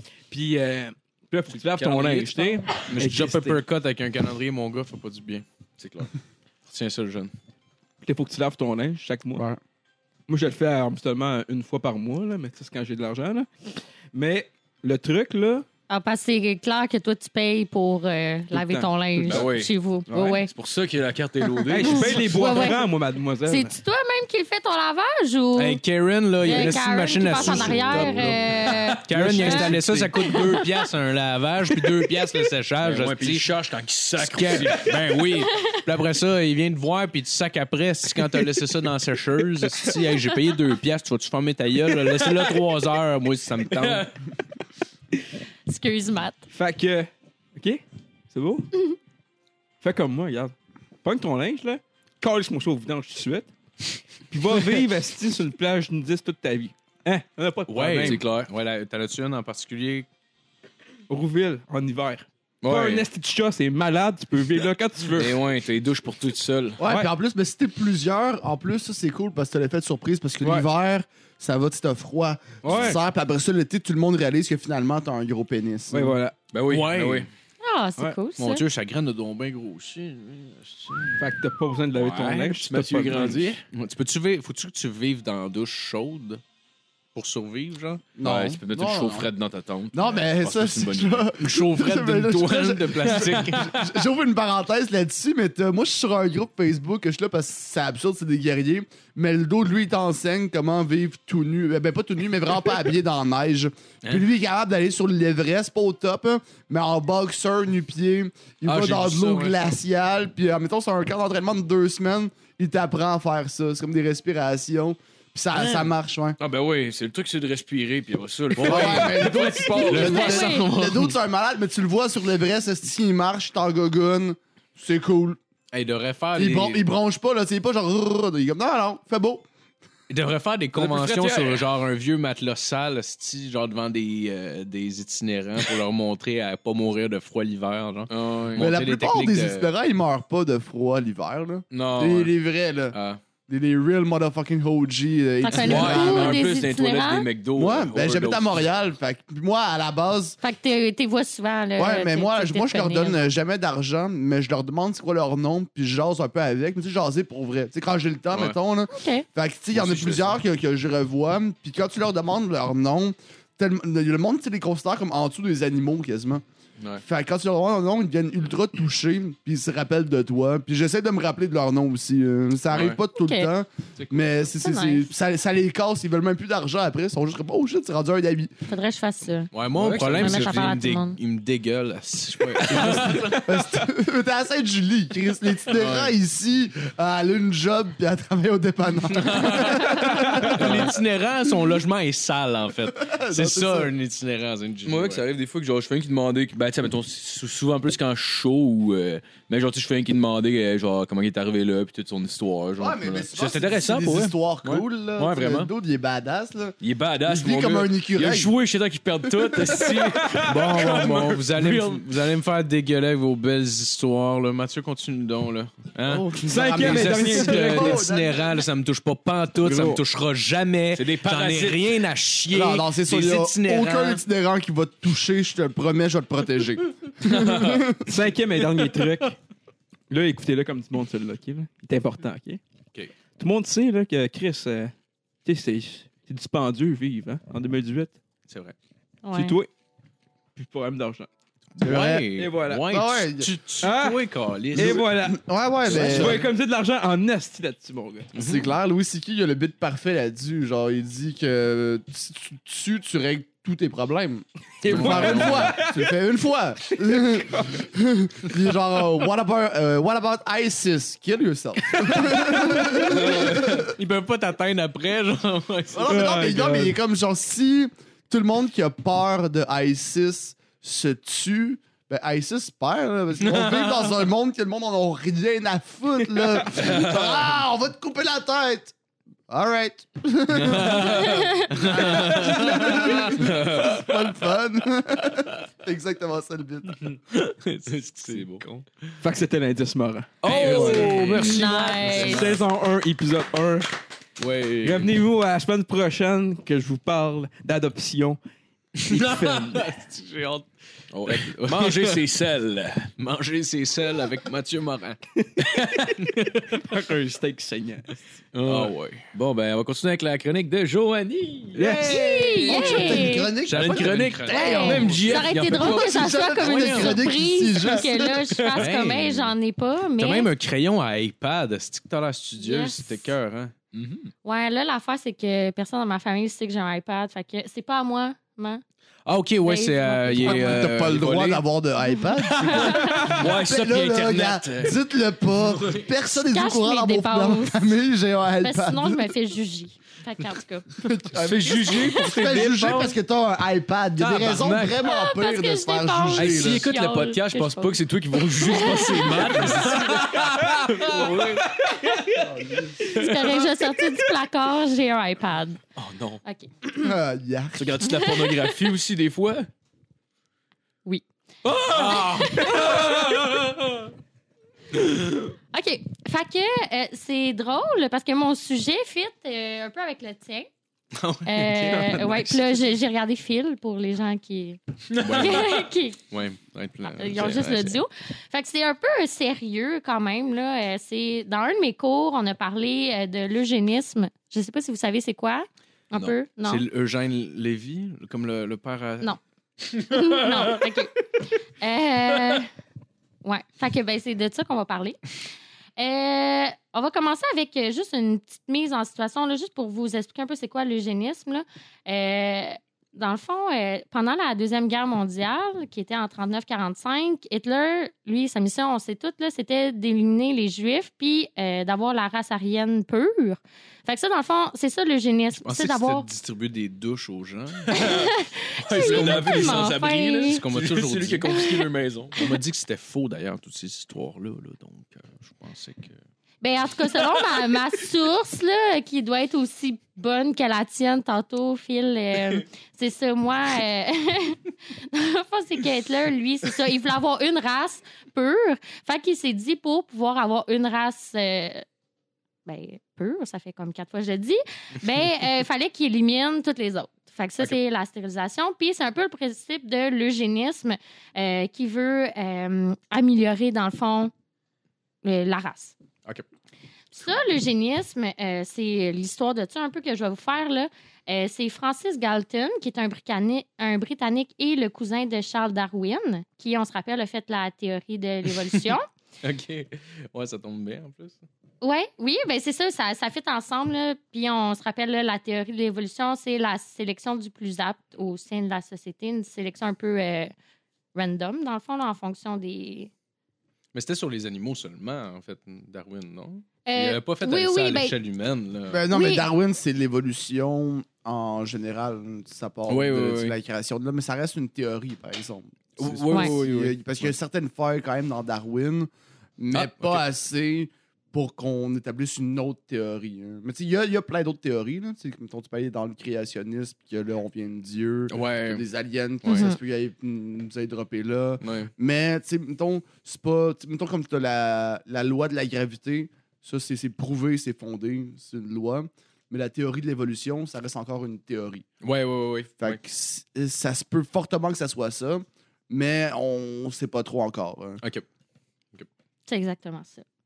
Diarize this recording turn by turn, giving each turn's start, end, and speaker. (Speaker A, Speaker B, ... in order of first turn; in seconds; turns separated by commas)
Speaker A: 0.3-3.6, Speaker B: 1.6-2.7, Speaker C: 2.9-5.5, Speaker B: 5.8-6.1, Speaker C: 6.7-7.3, Speaker A: 8.0-9.4, Speaker A: 10.3-13.5, Speaker A: 14.1-15.7, Speaker D: 15.9-20.5, Speaker A: 18.5-19.5, Speaker B: 19.2-19.7, Speaker A: 20.1-20.4, Speaker B: 20.5-22.6, Speaker A: 21.7-23.8, Speaker D: 21.8-22.9, Speaker D: 23.5-25.8, Speaker C: 25.6-33.5, Speaker D: 26.4-29.8, Speaker B: 27.4-29.7, Speaker A: 29.1-30.1, Speaker D: 30.3-30.6, Speaker B: 32.8-35.2, Speaker C: 34.2-44.1, Speaker D: 35.5-35.8, Speaker B: 42.2-42.5, Speaker B: 43.7-44.1, Speaker D: 45.7-46.5, Speaker A: 46.5-48.7, Speaker A: 49.8-53.5, Speaker A: 54.3-58.2, Speaker C: 57.7-60.1, Speaker B: 57.9-58.5, Speaker A: 61.1-65.4, Speaker B: 62.6-63.1, Speaker B: 65.1-66.8, Speaker E: 66.8-76.2, Speaker A: 66.8-67.1, Speaker A: 72.6-73.0, Speaker B: 72.7-73.0, Speaker A: 75.9-76.4, Speaker B: 76.5-77.3, Speaker C: 76.7-77.3, Speaker D: 77.6-78.6, Speaker C: 78.4-81.2, Speaker A: 81.2-83.5, Speaker B: 81.9-83.6, Speaker C: 83.7-86.4, Speaker C: 87.2-88.0, Speaker E: 88.2-89.3, Speaker B: 88.2-91.3, Speaker E: 89.9-116.4, Speaker C: 91.4-93.9, Speaker C: 108.7-109.7, Speaker B: 115.5-120.5, Speaker C: 118.6-119.3, Speaker E: 118.6-125.4, Speaker C: 119.9-121.1, Speaker D: 119.9-120.7, Speaker C: 125.7-126.9, Speaker E: 126.4-129.4, Speaker C: 130.1-139.7, Speaker B: 130.8-131.7, Speaker B: 138.1-138.7, Speaker E: 138.6-143.0, Speaker B: 141.7-142.4, Speaker B: 142.9-143.2, Speaker E: 143.5-146.4, Speaker D: 145.4-147.3, Speaker B: 145.5-148.7, Speaker E: 147.6-150.4, Speaker D: 150.4-153.2, Speaker E: 151.8-166.4, Speaker D: 158.9-159.2, Speaker B: 159.7-160.3, Speaker E: 167.0-178.7, Speaker B: 172.7-173.0, Speaker D: 173.2-173.5, Speaker D: 174.6-175.1, Speaker D: 178.7-179.5, Speaker C: 179.5-183.6, Speaker B: 179.8-180.8, Speaker D: 180.1-181.2, Speaker B: 182.7-183.3, Speaker E: 182.9-190.8, Speaker C: 185.8-186.1, Speaker B: 189.2-189.9, Speaker C: 189.3-195.2, Speaker B: 190.6-190.9, Speaker E: 193.0-193.9, Speaker B: 194.9-205.7, Speaker E: 202.8-208.5, Speaker B: 206.8-212.0, Speaker E: 209.3-210.0, Speaker C: 210.4-224.2, Speaker E: 216.1-218.5, Speaker A: 216.4-218.0, Speaker A: 219.6-220.0, Speaker B: 220.9-222.0, Speaker E: 222.5-228.1, Speaker B: 227.2-227.9, Speaker A: 228.1-229.4, Speaker A: 230.1-232.6, Speaker A: 233.4-234.9, Speaker A: 235.4-238.2, Speaker C: 238.5-238.8, Speaker D: 239.2-239.6, Speaker A: 239.3-239.7, Speaker A: 240.6-241.3, Speaker C: 241.8-245.1, Speaker E: 241.8-242.3, Speaker A: 242.4-242.9, Speaker E: 242.9-243.5, Speaker A: 243.8-244.2, Speaker A: 244.7-248.3, Speaker E: 244.8-246.5, Speaker C: 245.9-246.4, Speaker E: 248.3-263.9, Speaker C: 248.3-248.7, Speaker A: 254.8-256.1, Speaker C: 254.9-255.8, Speaker A: 262.1-263.5, Speaker C: 262.9-266.4, Speaker E: 265.9-278.9, Speaker A: 266.1-266.9, Speaker C: 273.4-274.2, Speaker B: 276.8-277.2, Speaker E: 279.5-287.1, Speaker B: 280.6-284.1, Speaker C: 280.6-283.8, Speaker D: 281.2-281.7, Speaker C: 287.3-288.9, Speaker B: 287.9-288.6, Speaker A: 289.2-293.9, Speaker B: 290.4-292.6, Speaker C: 290.4-292.4, Speaker D: 291.3-292.5, Speaker C: 294.4-295.0, Speaker A: 294.8-298.4, Speaker C: 299.0-300.7, Speaker A: 299.0-299.9, Speaker B: 301.1-303.1, Speaker C: 301.2-302.2, Speaker C: 303.2-306.8, Speaker A: 306.8-308.2, Speaker B: 308.5-311.9, Speaker C: 308.6-309.3, Speaker A: 311.8-312.9, Speaker E: 311.8-318.4, Speaker D: 312.1-313.5, Speaker C: 313.6-315.5, Speaker B: 313.7-316.4, Speaker D: 314.5-320.5, Speaker C: 316.6-317.2, Speaker C: 318.8-319.5, Speaker C: 320.2-323.7, Speaker D: 322.6-323.1, Speaker B: 323.9-324.3, Speaker D: 324.4-328.8, Speaker C: 329.2-331.6, Speaker D: 329.6-330.9, Speaker E: 330.4-339.3, Speaker D: 332.1-333.4, Speaker B: 333.2-335.0, Speaker B: 335.6-336.1, Speaker D: 336.5-337.9, Speaker D: 338.6-341.0, Speaker E: 341.0-346.9, Speaker B: 341.4-343.1, Speaker D: 341.9-342.2, Speaker B: 344.2-345.0, Speaker D: 345.0-348.0, Speaker B: 346.4-352.3, Speaker D: 348.5-350.2, Speaker C: 349.2-351.7, Speaker E: 352.4-353.1, Speaker D: 353.1-355.8, Speaker B: 353.1-353.6, Speaker B: 356.0-356.4, Speaker D: 356.4-356.7, Speaker E: 357.0-357.9, Speaker B: 357.8-359.7, Speaker D: 358.2-358.6, Speaker B: 361.7-363.3, Speaker D: 361.8-363.0, Speaker C: 361.9-363.3, Speaker A: 362.9-363.4, Speaker D: 365.7-370.7, Speaker C: 371.1-372.6, Speaker D: 371.5-376.2, Speaker B: 375.1-375.8, Speaker C: 375.2-378.0, Speaker D: 377.0-386.8, Speaker C: 386.6-389.4, Speaker D: 390.0-392.7, Speaker D: 393.4-395.2, Speaker D: 396.0-416.3, Speaker C: 415.6-418.1, Speaker B: 417.9-422.4, Speaker D: 417.9-420.6, Speaker C: 418.9-420.0, Speaker C: 420.5-421.6, Speaker D: 421.5-421.9, Speaker C: 422.4-426.2, Speaker D: 426.6-441.9, Speaker D: 442.6-454.3, Speaker D: 455.2-455.9, Speaker D: 457.1-469.1, Speaker C: 469.4-471.4, Speaker D: 471.8-480.5, Speaker D: 481.1-483.1, Speaker C: 483.9-489.0, Speaker D: 486.9-488.1, Speaker E: 488.9-521.9, Speaker D: 489.1-489.5, Speaker B: 492.9-493.5, Speaker B: 496.0-496.9, Speaker C: 496.0-496.5, Speaker D: 496.3-496.6, Speaker C: 508.3-508.8, Speaker C: 509.4-509.7, Speaker D: 509.5-509.8, Speaker C: 522.0-523.0, Speaker E: 522.8-528.0, Speaker D: 529.5-530.2